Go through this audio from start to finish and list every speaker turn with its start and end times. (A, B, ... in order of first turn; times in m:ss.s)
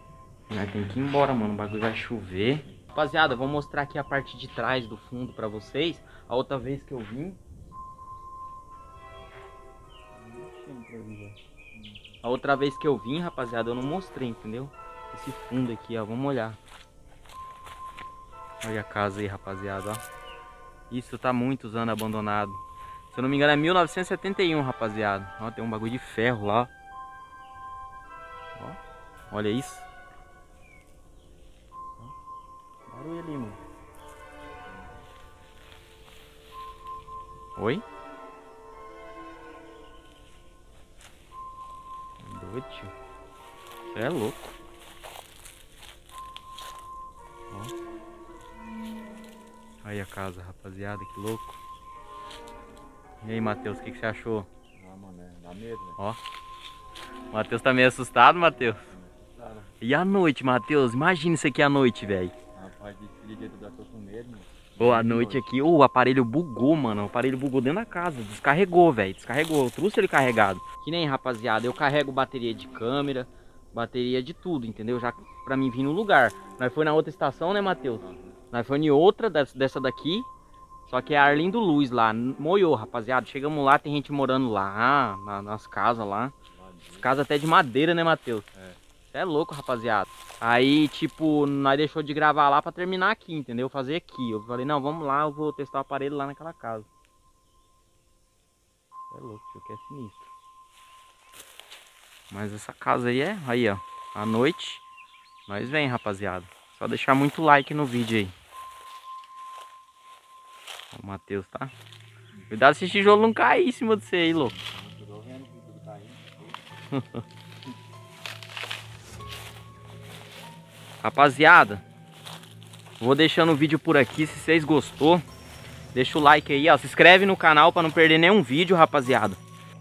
0:00.5-0:07.4 A
0:10.2-0:11.1 B
0:10.5-0:11.4 A
0:11.7-0:12.1 B
0:12.2-0:16.6 A
0:18.6-0:20.0 A
0:20.9-0:26.7 A
0:29.3-0:29.9 A
0:32.9-0:33.6 A
0:34.7-0:35.0 B
0:37.6-0:37.8 A
0:42.2-0:42.9 A
0:43.9-0:44.5 A
0:49.8-0:51.6 A
0:53.2-0:54.5 A
0:54.8-0:56.0 B
0:57.3-0:58.9 A
0:58.5-0:59.7 B
0:59.8-1:02.3 A
1:02.6-1:05.6 B
1:04.8-1:20.3 A
1:18.0-1:18.4 B
1:20.9-1:26.3 A
1:26.5-1:27.1 B
1:27.0-1:28.5 A
1:28.5-1:28.8 B
1:29.1-1:36.9 A
1:39.1-1:40.3 A
1:42.3-1:44.8 A
1:45.5-1:48.3 A
1:50.9-1:51.7 A
1:52.5-1:54.5 A
1:54.4-1:56.6 B
1:56.9-1:57.2 A
2:01.0-2:01.8 A
2:03.0-2:05.2 A
2:05.9-2:09.4 A